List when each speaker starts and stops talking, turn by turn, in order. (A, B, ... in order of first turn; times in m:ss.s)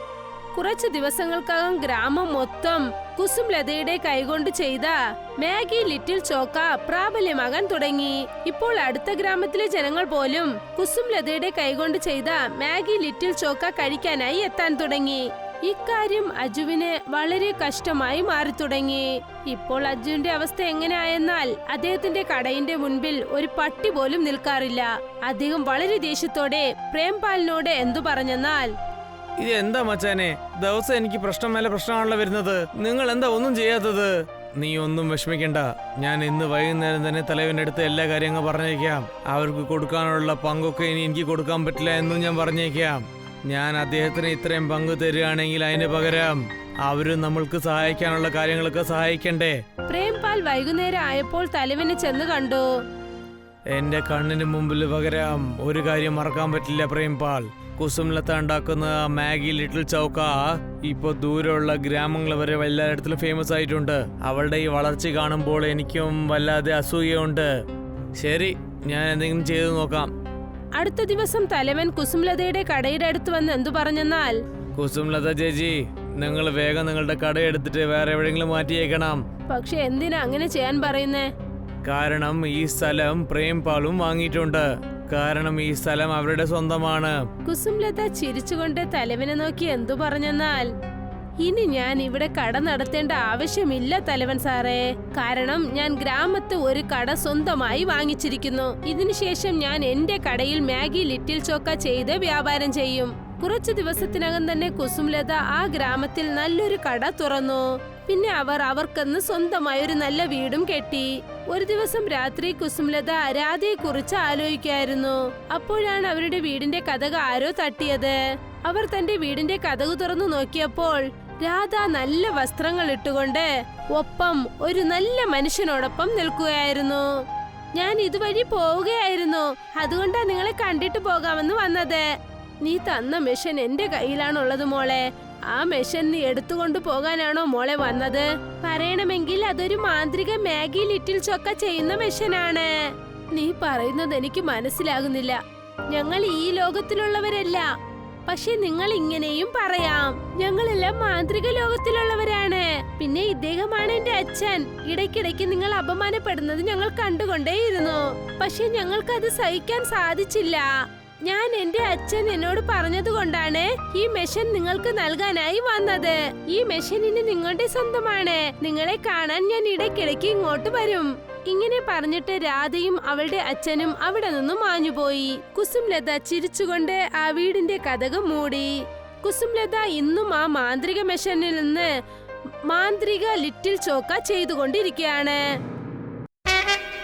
0:00.6-0:28.7 A
0:29.4-0:49.6 B
0:49.9-0:52.7 A
0:53.7-1:07.5 B
1:08.2-1:10.1 B
1:10.8-1:14.4 A
1:14.8-1:19.2 B
1:19.5-1:21.3 A
1:21.8-1:27.2 B
1:27.4-1:30.7 A
1:31.4-2:07.1 A
2:07.8-2:12.0 A
2:12.6-2:22.7 A
2:23.3-2:27.7 A
2:28.3-2:40.7 A
2:41.2-3:01.9 A
3:02.7-3:05.4 A